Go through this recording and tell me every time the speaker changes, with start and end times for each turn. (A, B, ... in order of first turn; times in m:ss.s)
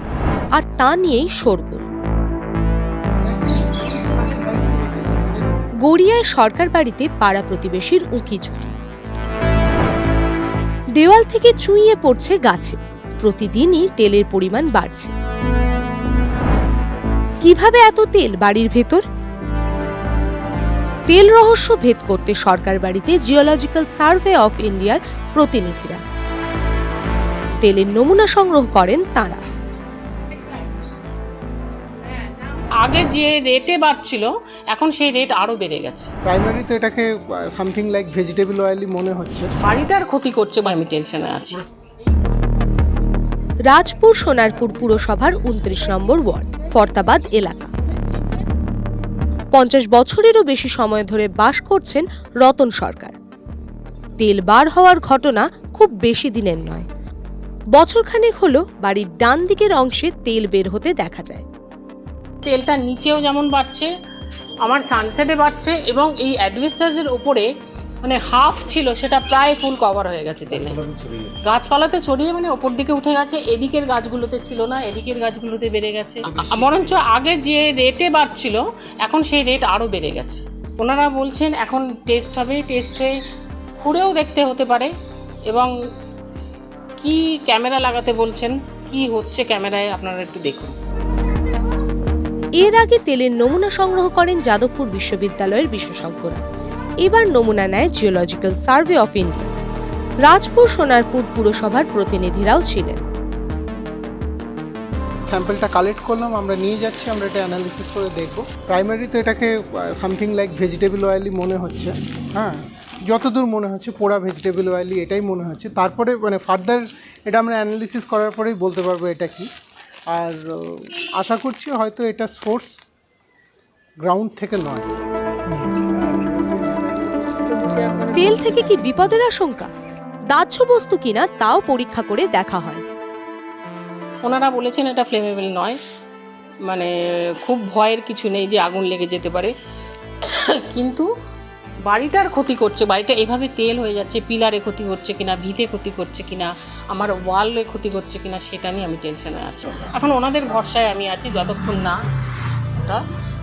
0:00.6-0:01.8 A
0:03.2-0:05.5 B
0:05.8-0:08.8 A
0:11.0-0:15.1 A
0:17.4-0:19.0 A
0:21.1-0:26.0 A
0:27.6-0:29.4 A
0:32.6-0:36.1 C
0:36.2-0:39.5 B
0:39.6-0:41.6 C
0:43.7-0:47.7 A
0:49.5-0:53.1 A
0:54.2-0:56.9 A
0:57.8-1:01.4 A
1:02.4-1:03.9 C
1:04.6-1:07.5 C
1:08.0-1:10.9 C
1:11.5-1:23.1 C
1:23.8-1:24.9 C
1:27.0-1:30.7 C
1:32.6-1:36.4 A
1:37.0-1:39.5 A
1:40.2-1:43.0 A
1:45.3-1:59.5 B
2:00.1-2:02.8 B
2:04.0-2:04.9 B
2:07.4-2:08.2 C
2:08.1-2:09.7 A
2:10.3-2:12.8 A
2:14.2-2:15.8 C
2:16.7-2:19.5 C
2:20.2-2:21.1 C
2:21.9-2:32.0 C
2:32.7-2:33.0 C